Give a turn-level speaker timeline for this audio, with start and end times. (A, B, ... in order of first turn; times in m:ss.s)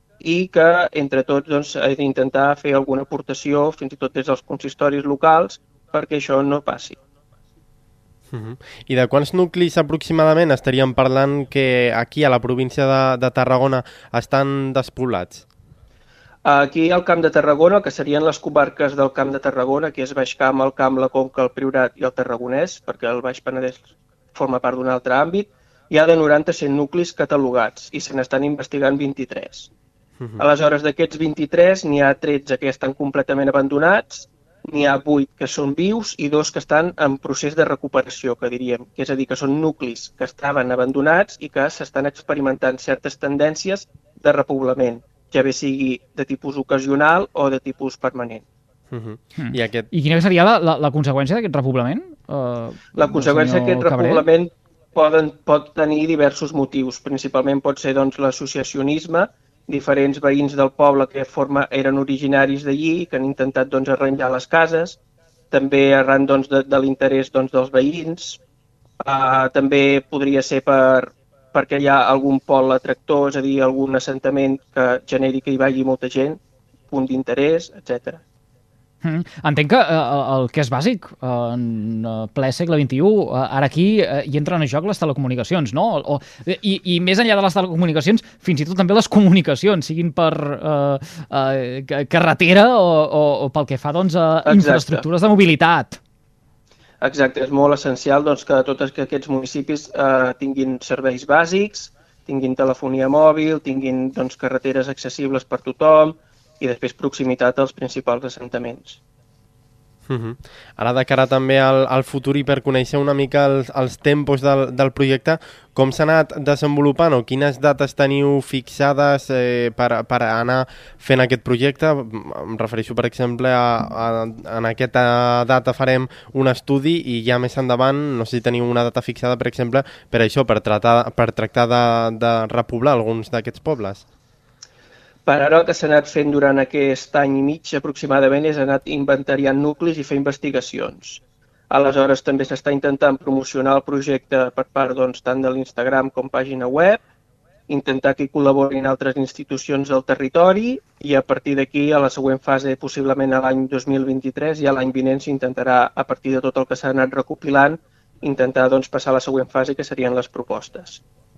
0:00.2-0:07.0 A
0:08.3-0:15.4 B
0:16.4-0:29.7 A
0:30.4-0:48.4 A
0:48.9-0:49.9 B
0:49.4-0:54.2 C
0:52.9-1:05.0 A
1:05.5-1:08.4 A
1:09.0-1:18.2 A
1:19.0-1:36.0 C
1:34.4-1:35.0 A
1:37.0-1:49.0 A
1:50.1-2:14.0 B
2:15.2-2:27.0 A
2:27.7-2:41.0 A